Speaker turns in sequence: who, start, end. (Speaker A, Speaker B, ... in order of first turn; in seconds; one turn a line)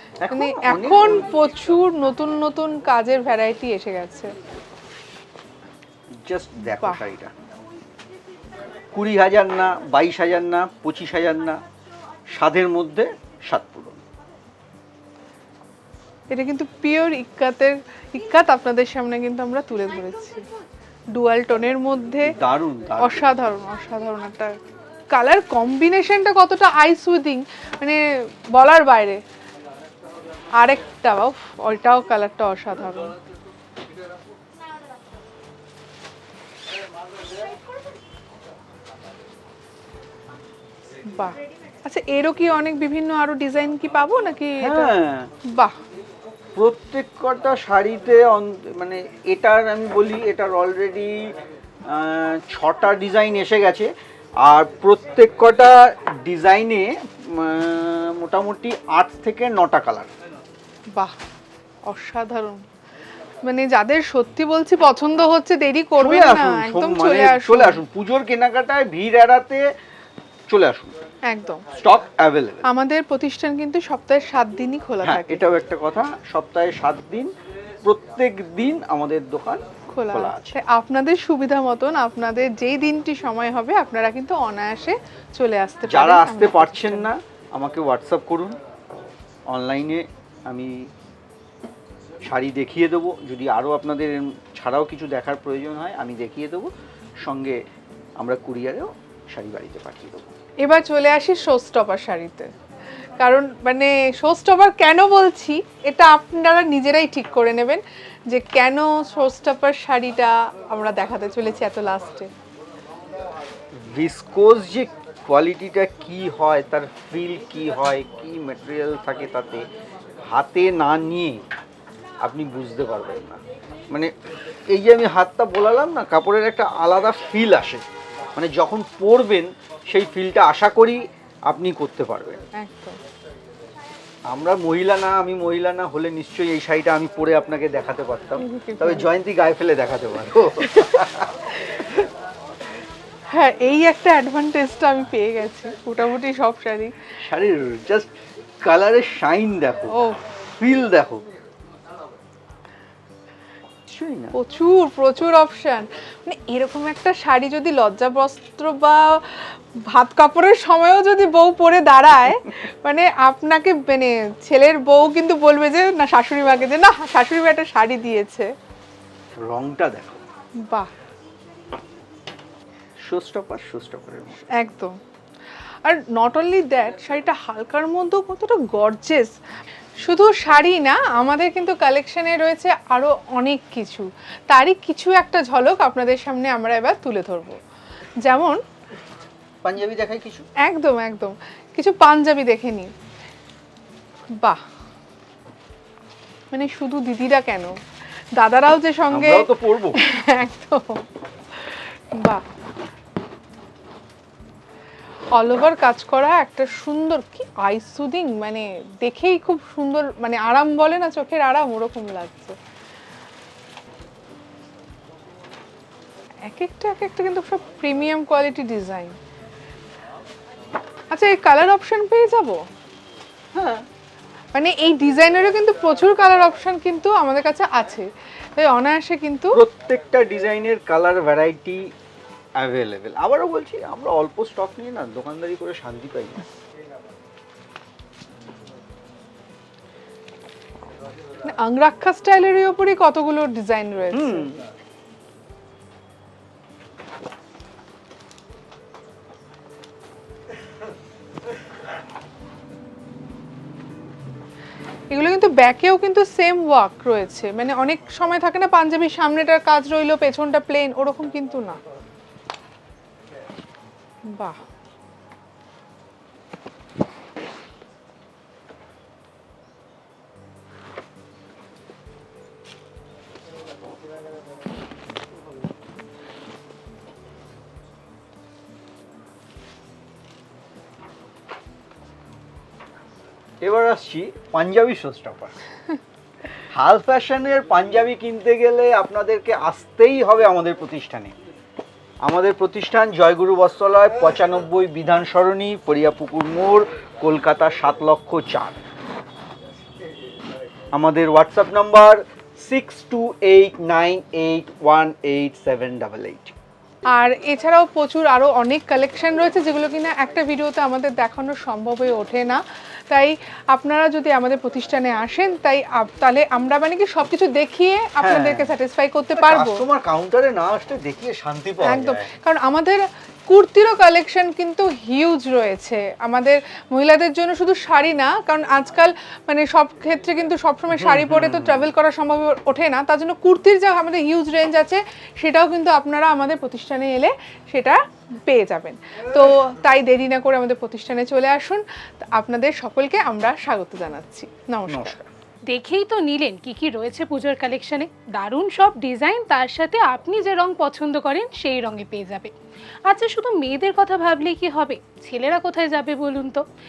Speaker A: 0.2-1.3
Speaker B: 0.3-4.3
Speaker A: 6.2-7.3
Speaker B: 6.7-7.0
Speaker A: 8.9-11.6
Speaker A: 12.4-14.0
Speaker B: 16.3-20.4
Speaker B: 21.1-22.3
Speaker A: 22.3-23.3
Speaker B: 23.0-24.5
Speaker B: 25.1-28.0
Speaker B: 28.6-29.2
Speaker B: 30.6-33.2
Speaker B: 41.1-45.0
Speaker A: 44.6-45.3
Speaker A: 46.6-51.3
Speaker A: 51.9-53.9
Speaker A: 54.4-60.1
Speaker B: 61.9-62.6
Speaker B: 63.5-67.8
Speaker A: 66.0-69.7
Speaker A: 70.5-70.9
Speaker B: 71.3-71.7
Speaker A: 71.8-72.6
Speaker B: 72.7-75.4
Speaker A: 75.0-77.3
Speaker A: 77.8-80.6
Speaker B: 79.9-87.1
Speaker A: 85.9-88.6
Speaker A: 89.5-90.9
Speaker A: 92.2-96.7
Speaker A: 97.2-97.6
Speaker A: 98.2-100.3
Speaker B: 100.6-102.5
Speaker B: 103.2-112.3
Speaker A: 113.8-119.6
Speaker A: 120.3-121.4
Speaker A: 122.2-123.4
Speaker A: 124.7-127.8
Speaker A: 128.4-132.4
Speaker B: 132.6-133.0
Speaker A: 134.3-141.4
Speaker B: 138.4-139.1
Speaker B: 143.3-146.9
Speaker A: 147.2-148.1
Speaker A: 148.6-150.0
Speaker B: 149.9-150.2
Speaker A: 150.6-151.3
Speaker A: 153.9-154.3
Speaker B: 154.3-168.5
Speaker A: 169.4-170.2
Speaker A: 173.1-174.4
Speaker B: 174.6-174.9
Speaker B: 175.8-179.3
Speaker B: 180.0-187.6
Speaker B: 188.2-188.6
Speaker A: 189.6-190.5
Speaker B: 190.7-192.9
Speaker B: 196.5-197.8
Speaker B: 198.4-201.0
Speaker A: 199.1-200.0
Speaker B: 201.6-202.4
Speaker B: 205.3-212.6
Speaker B: 216.4-219.2
Speaker B: 221.1-222.6
Speaker A: 223.5-223.8
Speaker B: 224.5-229.6
Speaker A: 229.5-231.9
Speaker A: 232.6-236.5
Speaker B: 241.5-244.6
Speaker A: 244.1-244.6
Speaker B: 255.1-261.8
Speaker B: 264.3-264.6
Speaker A: 283.6-285.6
Speaker A: 286.7-291.4
Speaker A: 292.2-298.8
Speaker A: 300.9-306.5
Speaker B: 307.1-319.8
Speaker A: 318.2-318.7
Speaker A: 319.4-322.3
Speaker B: 321.8-345.2
Speaker A: 330.9-331.9
Speaker A: 344.9-345.3
Speaker C: 345.7-352.5
Speaker C: 353.1-356.6